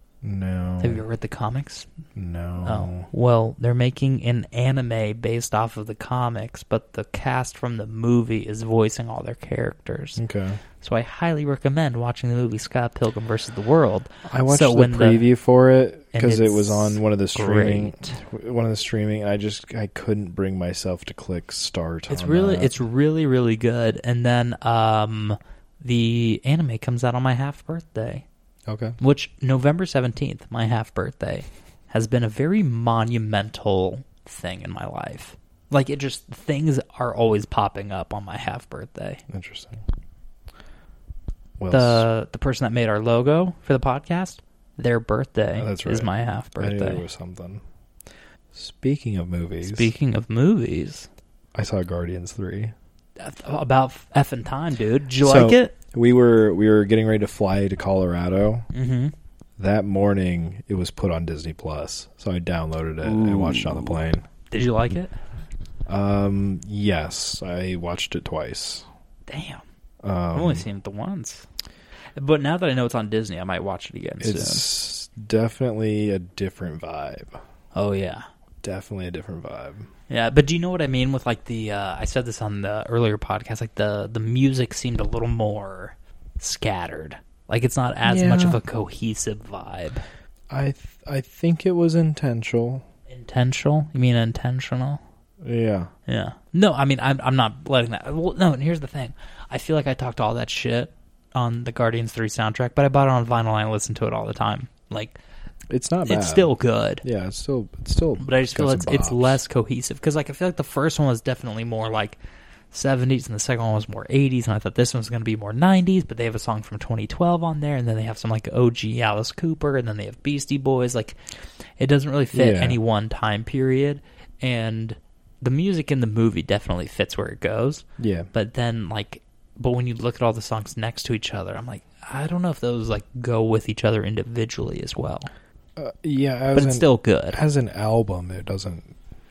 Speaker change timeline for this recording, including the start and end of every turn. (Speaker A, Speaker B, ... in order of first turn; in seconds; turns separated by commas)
Speaker A: 0.2-1.0, Speaker B: 0.8-1.9, Speaker A: 2.1-3.1, Speaker B: 2.6-10.2, Speaker A: 10.2-10.6, Speaker B: 10.8-15.3, Speaker A: 14.3-22.7, Speaker B: 16.1-18.2, Speaker B: 22.1-28.2, Speaker A: 28.7-29.0, Speaker B: 29.0-39.2, Speaker A: 39.3-39.8, Speaker A: 41.6-42.0, Speaker B: 41.7-47.0, Speaker A: 45.5-47.6, Speaker A: 48.5-49.9, Speaker B: 49.6-51.1, Speaker A: 51.5-52.7, Speaker B: 53.2-55.7, Speaker A: 55.2-58.7, Speaker B: 58.7-59.1, Speaker A: 59.6-64.2, Speaker B: 63.0-65.1, Speaker A: 65.9-68.9, Speaker B: 69.3-69.6, Speaker A: 70.0-70.6, Speaker B: 70.3-71.5, Speaker B: 72.2-74.6, Speaker A: 74.2-77.4, Speaker B: 77.7-78.2, Speaker A: 78.6-79.9, Speaker B: 80.1-90.0, Speaker A: 88.0-88.6, Speaker A: 90.5-92.8, Speaker B: 93.1-95.0, Speaker A: 95.4-95.9, Speaker B: 96.1-105.2, Speaker A: 105.7-106.5, Speaker B: 106.0-107.0, Speaker A: 107.0-109.4, Speaker B: 108.2-112.2, Speaker B: 112.7-121.2, Speaker B: 121.8-135.3, Speaker A: 122.3-122.8, Speaker A: 128.0-128.3, Speaker A: 135.8-138.9, Speaker B: 136.5-137.4